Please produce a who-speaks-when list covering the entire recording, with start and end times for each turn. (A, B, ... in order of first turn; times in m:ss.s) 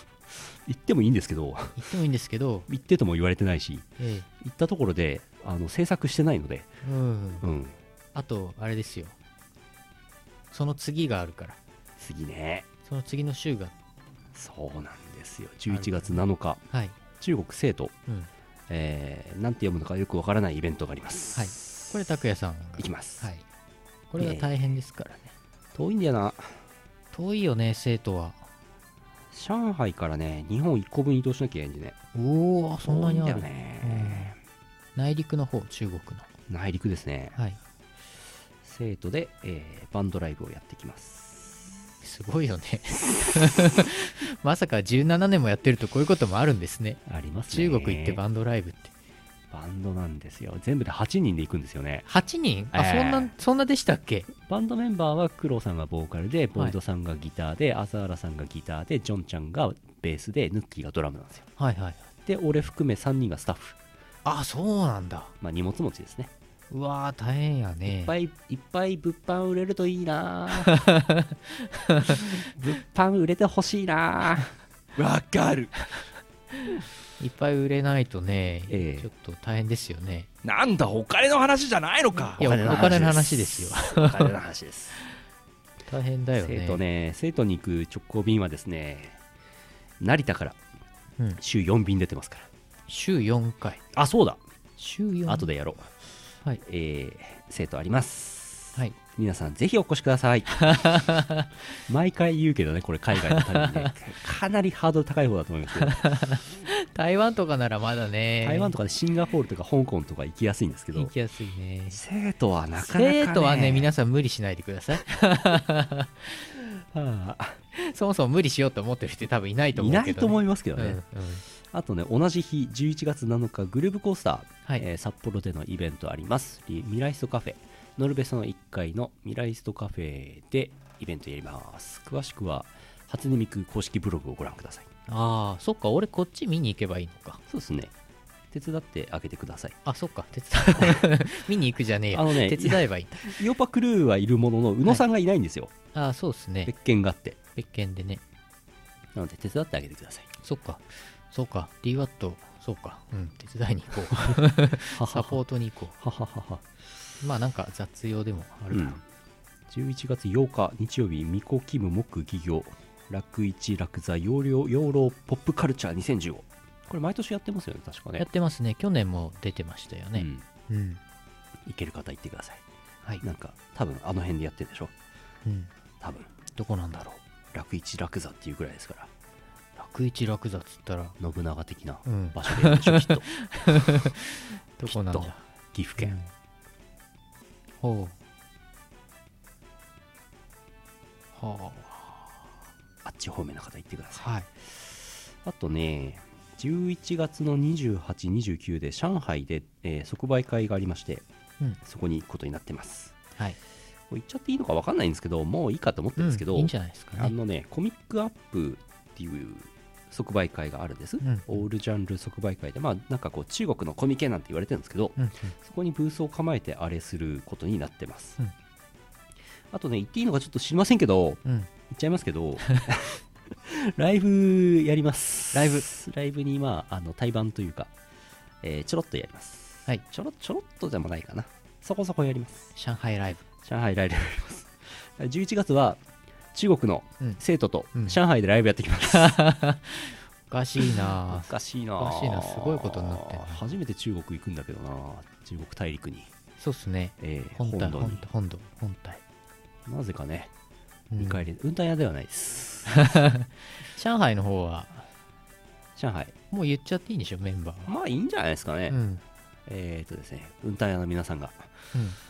0:00.4-0:01.8 A
0:01.8-0:02.7 B
0:02.7-0:06.7 A
0:04.0-0:04.3 B
0:06.8-0:07.4 B
0:07.4-0:07.8 A
0:08.1-0:09.1 B
0:10.5-0:11.6 B
0:12.0-0:12.7 A
0:12.8-0:13.7 B
0:14.3-0:16.6 A
0:15.7-0:16.2 B
0:16.7-0:17.0 B
0:17.2-0:17.9 A
0:18.7-0:21.9 A
0:21.3-0:23.4 B
0:22.8-0:23.3 A
0:24.1-0:25.3 B
0:24.2-0:24.5 A
0:25.7-0:26.6 A
0:27.1-0:28.4 B
0:29.3-0:32.0 A
0:32.1-0:34.3 B
0:32.8-0:34.4 A
0:34.9-0:36.3 B
0:36.5-0:37.4 A
0:38.6-0:41.6 A
0:42.0-0:48.9 B
0:47.0-0:48.2 A
0:49.5-0:52.1 A
0:52.0-0:54.3 B
0:52.7-0:53.3 A
0:54.4-1:01.5 A
1:01.6-1:02.0 B
1:02.2-1:03.8 A
1:04.2-1:05.3 B
1:05.4-1:06.3 A
1:06.7-1:08.1 B
1:07.8-1:10.8 A
1:10.6-1:12.3 B
1:12.1-1:14.5 A
1:15.0-1:15.9 C
1:17.2-1:20.3 B
1:18.7-1:19.1 A
1:20.4-1:22.4 C
1:22.4-1:24.4 B
1:22.4-1:25.0 A
1:25.9-1:26.8 B
1:26.4-1:29.2 A
1:30.0-1:30.6 A
1:31.4-1:32.5 A
1:32.9-1:33.8 B
1:33.9-1:34.4 A
1:34.8-1:35.5 B
1:35.3-1:35.9 A
1:36.6-1:40.8 A
1:40.6-1:41.5 B
1:41.8-1:46.0 A
1:43.1-1:43.9 B
1:45.8-1:48.8 B
1:48.4-1:51.1 A
1:50.9-1:52.0 B
1:51.9-1:53.9 A
1:52.8-1:56.5 B
1:56.9-1:57.6 A
1:57.7-2:01.4 B
1:59.7-2:14.9 A
2:15.1-2:17.4 B
2:17.5-2:17.9 A
2:18.5-2:19.8 A
2:19.8-2:23.4 B
2:20.8-2:21.1 A
2:22.1-2:25.7 A
2:25.9-2:26.7 B
2:26.6-2:27.4 A
2:27.6-2:28.2 B
2:29.1-2:30.3 A
2:30.4-2:36.0 B
2:34.8-2:35.4 A
2:36.0-2:36.6 A
2:37.2-2:39.0 B
2:38.7-2:39.0 A
2:39.7-2:48.3 A
2:48.2-2:51.0 B
2:50.1-2:50.4 A
2:51.6-2:52.6 A
2:53.2-2:54.9 A
2:55.4-2:55.7 B
2:56.0-2:56.3 A
2:56.5-2:57.2 B
2:57.5-2:59.1 A
2:59.8-3:01.2 B
3:01.2-3:03.3 A
3:02.0-3:05.4 B
3:04.8-3:06.2 A
3:06.0-3:06.3 B
3:07.8-3:08.2 B
3:11.4-3:12.4 B
3:13.0-3:21.2 A
3:14.2-3:14.5 B
3:21.8-3:23.2 A
3:24.1-3:38.4 A
3:26.2-3:27.3 B
3:31.2-3:31.6 B
3:35.2-3:35.5 B
3:39.7-3:47.9 A
3:45.5-3:45.8 B
3:48.6-3:52.7 A
3:52.8-3:53.4 B
3:53.6-3:56.0 A
3:56.5-3:59.4 A
3:59.1-4:03.6 B
4:00.9-4:06.3 A
4:06.6-4:09.2 B
4:07.2-4:08.2 A
4:09.8-4:10.5 A
4:11.1-4:11.4 B
4:11.2-4:13.1 A
4:12.9-4:15.0 B
4:16.0-4:16.4 A
4:16.5-4:17.9 B
4:17.8-4:19.0 A
4:18.9-4:19.2 B
4:19.6-4:21.7 A